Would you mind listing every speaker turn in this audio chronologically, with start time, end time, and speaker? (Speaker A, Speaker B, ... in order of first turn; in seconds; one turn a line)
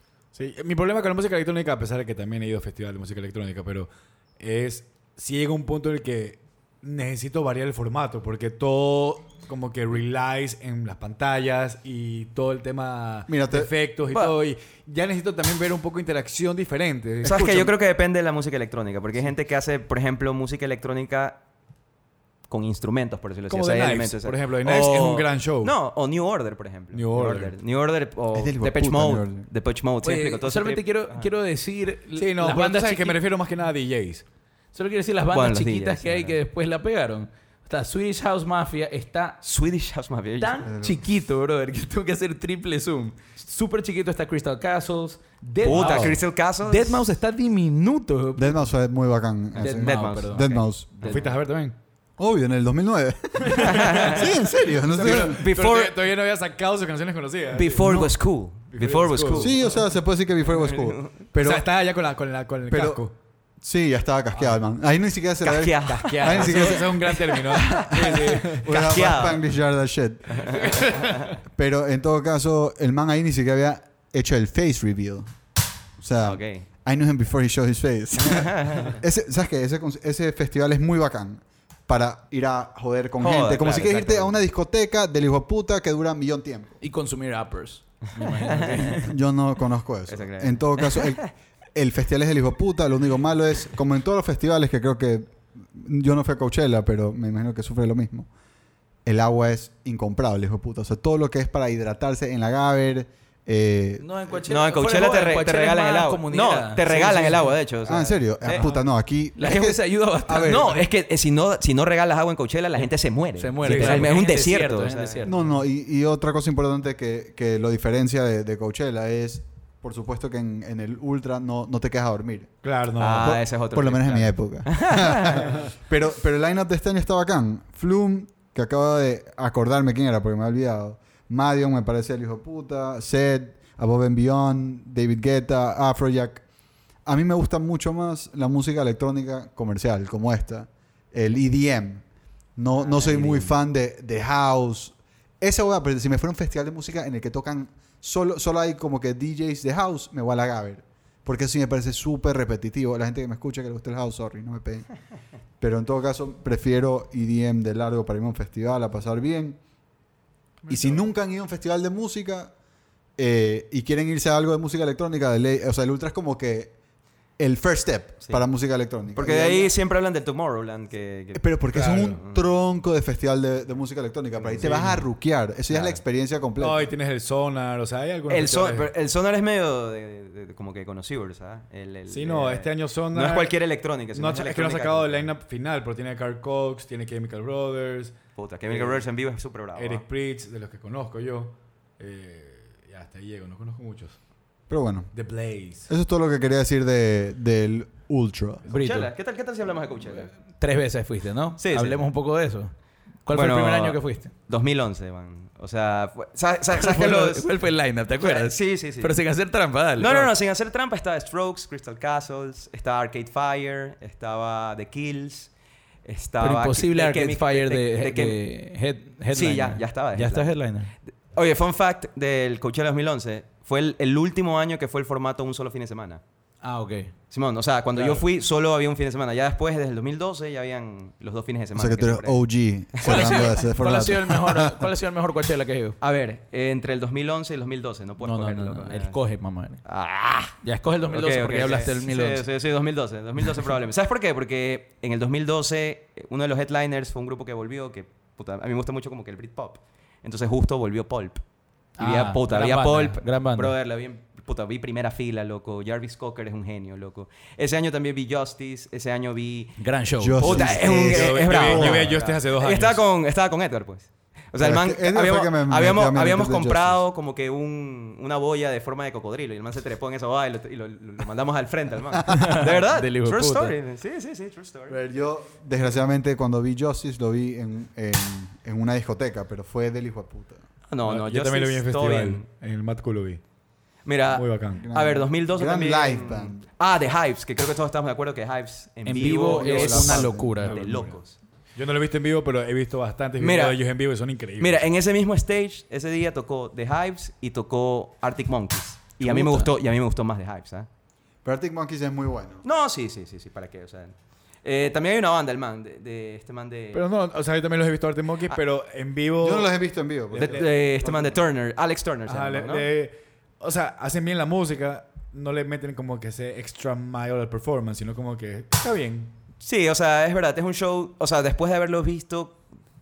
Speaker A: 0.3-17.7
Speaker B: 13.3-13.7
Speaker C: 17.2-21.4
Speaker C: 22.5-31.3
Speaker A: 23.5-25.7
Speaker A: 26.9-27.5
Speaker B: 28.3-29.5
Speaker D: 30.0-33.2
Speaker A: 32.2-34.2
Speaker D: 34.7-39.4
Speaker C: 35.3-36.4
Speaker C: 39.4-40.6
Speaker D: 40.4-48.6
Speaker B: 40.6-41.0
Speaker C: 45.6-47.0
Speaker A: 45.7-46.2
Speaker B: 48.4-51.2
Speaker D: 49.6-50.5
Speaker C: 49.8-51.3
Speaker A: 51.0-51.8
Speaker B: 52.2-55.5
Speaker C: 53.5-54.3
Speaker A: 54.8-57.9
Speaker C: 55.2-55.9
Speaker C: 57.5-59.7
Speaker B: 57.8-58.1
Speaker A: 58.7-59.6
Speaker B: 59.3-61.7
Speaker C: 60.5-61.2
Speaker A: 61.4-63.1
Speaker B: 62.7-63.0
Speaker B: 63.6-75.3
Speaker C: 65.4-69.4
Speaker A: 65.9-68.7
Speaker C: 70.3-71.3
Speaker B: 76.0-86.8
Speaker C: 76.2-76.7
Speaker C: 78.2-79.0
Speaker C: 83.2-84.4
Speaker D: 86.8-89.1
Speaker C: 88.5-88.9
Speaker B: 88.9-98.3
Speaker C: 90.1-91.2
Speaker B: 99.0-104.1
Speaker D: 104.0-107.5
Speaker C: 104.4-108.7
Speaker B: 107.9-110.8
Speaker A: 108.5-108.8
Speaker D: 109.4-110.7
Speaker C: 110.4-115.3
Speaker D: 113.4-115.4
Speaker A: 113.6-114.1
Speaker B: 115.2-122.6
Speaker A: 122.6-123.3
Speaker C: 123.0-125.5
Speaker B: 123.2-136.4
Speaker B: 137.1-142.1
Speaker B: 142.6-154.9
Speaker C: 142.8-143.5
Speaker B: 155.6-159.6
Speaker B: 160.7-162.5
Speaker B: 163.2-166.7
Speaker B: 167.4-169.7
Speaker C: 169.1-172.5
Speaker B: 171.3-176.9
Speaker A: 171.7-172.2
Speaker A: 174.6-175.1
Speaker C: 175.7-176.0
Speaker A: 176.6-178.9
Speaker C: 178.3-185.3
Speaker A: 182.1-183.6
Speaker A: 184.1-188.2
Speaker C: 188.4-190.0
Speaker A: 188.7-189.1
Speaker A: 189.8-194.2
Speaker B: 194.7-195.1
Speaker A: 195.1-195.9
Speaker B: 195.9-198.7
Speaker D: 198.7-199.1
Speaker C: 198.7-200.3
Speaker D: 200.6-202.7
Speaker C: 201.6-202.0
Speaker D: 203.2-204.3
Speaker C: 203.3-207.5
Speaker D: 206.8-210.3
Speaker C: 208.2-209.2
Speaker C: 210.0-215.5
Speaker C: 216.1-218.4
Speaker D: 216.4-220.9
Speaker C: 219.3-220.5
Speaker C: 221.3-226.2
Speaker D: 226.6-227.1
Speaker C: 227.3-232.4
Speaker B: 231.8-234.9
Speaker C: 232.9-233.6
Speaker D: 233.0-236.0
Speaker C: 236.0-239.2
Speaker D: 238.2-239.8
Speaker C: 239.8-251.4
Speaker D: 240.6-242.4
Speaker D: 252.0-253.7
Speaker C: 252.0-259.8
Speaker D: 259.8-260.8
Speaker B: 260.2-262.2
Speaker C: 260.4-275.0
Speaker A: 260.7-263.0
Speaker B: 264.6-267.0
Speaker D: 272.3-273.8
Speaker B: 274.9-280.6
Speaker C: 280.9-282.4
Speaker A: 281.1-283.4
Speaker C: 284.1-291.4
Speaker A: 284.3-284.9
Speaker B: 284.8-286.7
Speaker D: 289.1-290.8
Speaker B: 289.2-290.6
Speaker A: 290.6-291.2
Speaker A: 291.8-294.9
Speaker C: 293.4-293.8
Speaker C: 294.6-300.9
Speaker D: 299.2-299.7
Speaker B: 301.4-302.6
Speaker C: 302.6-307.0
Speaker A: 306.9-309.7
Speaker B: 309.4-311.2
Speaker C: 310.3-312.9
Speaker A: 310.4-310.7
Speaker A: 312.3-319.3
Speaker C: 319.6-322.6